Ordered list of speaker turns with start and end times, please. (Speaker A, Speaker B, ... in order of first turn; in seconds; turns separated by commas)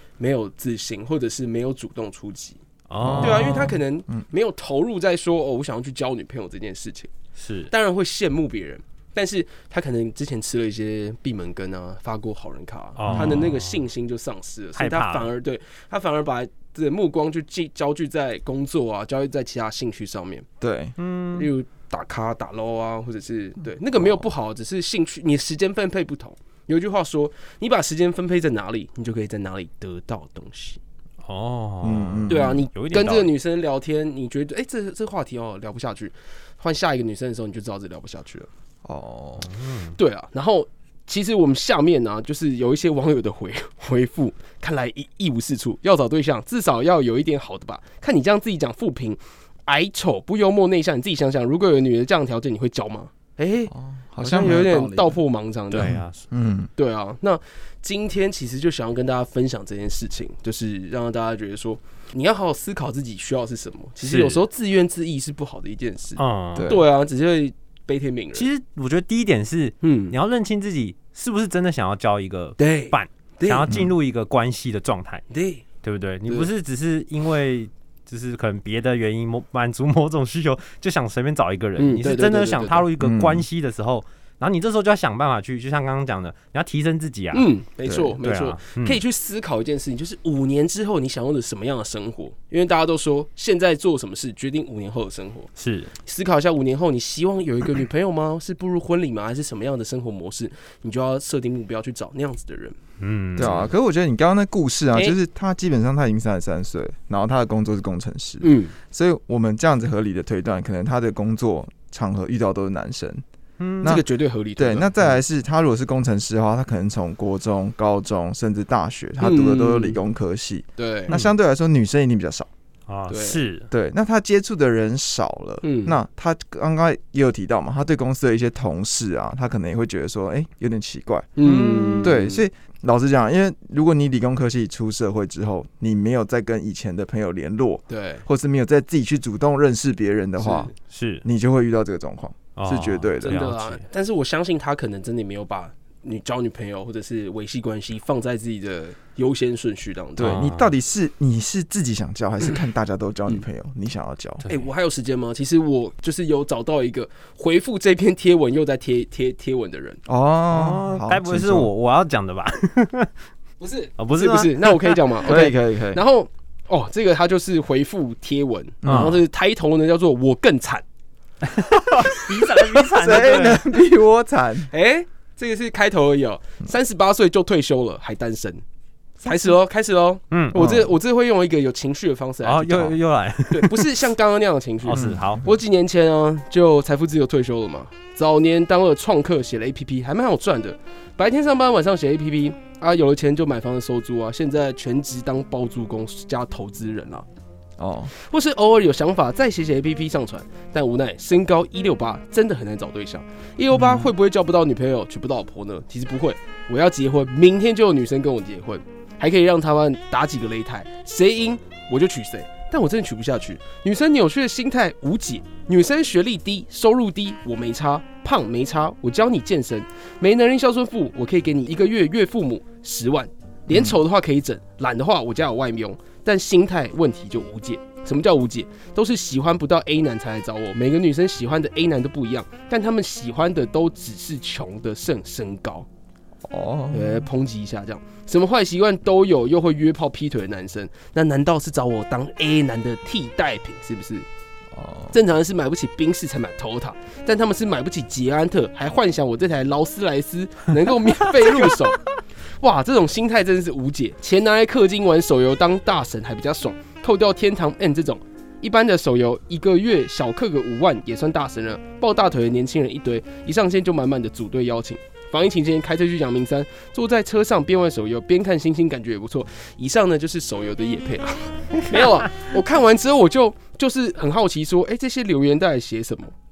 Speaker A: 0.2-2.6, Speaker B: 2.9-3.8, Speaker C: 3.0-4.2, Speaker A: 3.2-7.1, Speaker B: 7.4-7.7, Speaker A: 7.7-20.5, Speaker B: 13.0-13.8, Speaker C: 13.1-13.5, Speaker B: 14.8-15.3, Speaker C: 20.6-20.9, Speaker B: 21.0-21.5, Speaker A: 21.3-30.8, Speaker B: 31.2-33.3, Speaker C: 31.8-32.6, Speaker A: 32.3-38.5, Speaker C: 38.8-39.5, Speaker B: 39.4-40.0, Speaker A: 40.0-55.9, Speaker C: 53.7-55.2, Speaker B: 55.7-56.2, Speaker C: 55.8-56.7, Speaker A: 56.8-68.5, Speaker B: 64.0-64.4, Speaker B: 66.2-66.8, Speaker C: 66.5-66.8, Speaker B: 68.3-75.2, Speaker A: 69.8-70.2, Speaker A: 72.6-73.8, Speaker A: 75.3-75.6, Speaker B: 75.8-87.5, Speaker A: 81.8-82.9, Speaker C: 83.0-83.5, Speaker A: 87.3-102.8, Speaker C: 87.9-88.1, Speaker B: 88.2-89.0, Speaker B: 95.6-95.9, Speaker B: 103.0-103.7, Speaker C: 103.4-113.2, Speaker A: 108.4-108.8, Speaker B: 113.6-114.0, Speaker A: 113.8-114.9, Speaker C: 114.6-122.5, Speaker A: 119.2-120.0, Speaker A: 120.8-121.2, Speaker B: 122.9-123.7, Speaker A: 123.1-123.4, Speaker C: 123.7-131.3, Speaker A: 125.6-126.0, Speaker A: 131.4-132.4, Speaker B: 131.4-132.1, Speaker C: 132.0-140.7, Speaker A: 137.9-138.2, Speaker A: 140.4-140.7, Speaker B: 140.9-141.2, Speaker C: 141.2-143.4, Speaker B: 142.6-143.8, Speaker A: 143.2-150.4, Speaker C: 150.2-154.4, Speaker B: 150.2-150.7, Speaker A: 154.5-160.0, Speaker C: 160.1-161.7, Speaker B: 160.5-163.1, Speaker A: 163.6-170.8, Speaker B: 164.0-165.0, Speaker C: 165.2-166.0, Speaker C: 168.8-169.2, Speaker B: 168.8-169.2, Speaker B: 171.5-173.6, Speaker C: 172.6-174.7, Speaker A: 174.7-178.6, Speaker A: 179.2-183.0, Speaker B: 180.3-180.6, Speaker C: 180.5-180.9, Speaker B: 182.4-184.0, Speaker A: 183.5-197.3, Speaker B: 184.8-185.5, Speaker C: 184.9-185.2, Speaker C: 197.8-198.1, Speaker A: 198.1-235.9, Speaker C: 203.7-204.1, Speaker C: 223.7-224.0, Speaker C: 236.4-237.3, Speaker A: 236.9-244.3, Speaker C: 244.7-245.2, Speaker A: 245.1-252.0, Speaker A: 252.6-276.3